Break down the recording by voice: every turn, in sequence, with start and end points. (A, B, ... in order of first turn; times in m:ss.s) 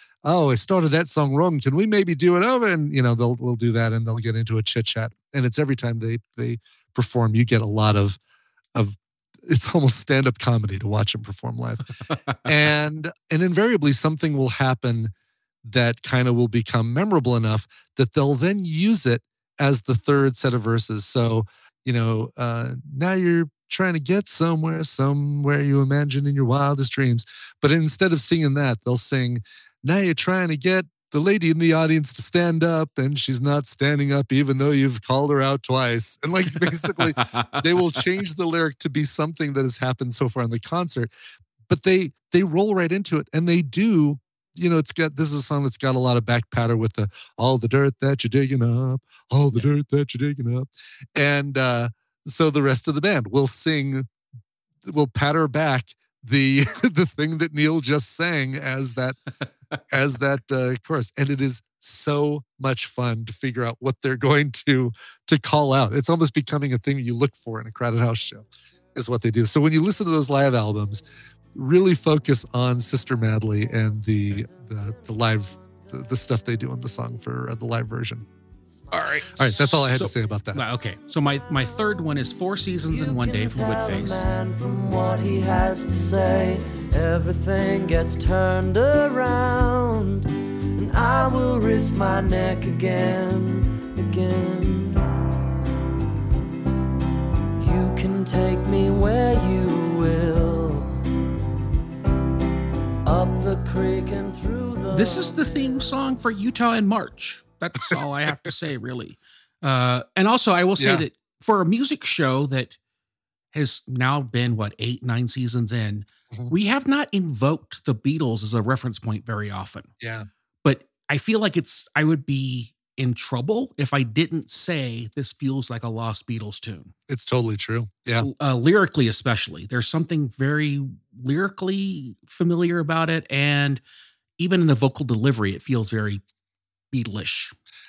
0:00.2-0:08.2 A
0:08.8-0:11.9 A
0:12.4-0:15.1 A
0:15.6-0:41.1 A
0:37.2-0:37.6 B
0:41.7-0:54.1 A
0:54.8-0:59.2 A
0:59.9-1:11.0 A
1:11.5-1:18.3 A
1:18.9-1:24.3 B
1:19.4-1:20.6 A
1:23.0-1:35.1 C
1:37.6-1:41.1 C
1:43.0-1:45.5 C
1:44.9-1:52.8 B
1:50.8-1:51.0 A
1:53.5-1:59.9 B
2:00.0-2:00.3 A
2:00.6-2:06.9 B
2:07.1-2:08.3 A
2:08.2-2:13.8 B
2:14.4-2:16.2 B
2:16.9-2:17.6 B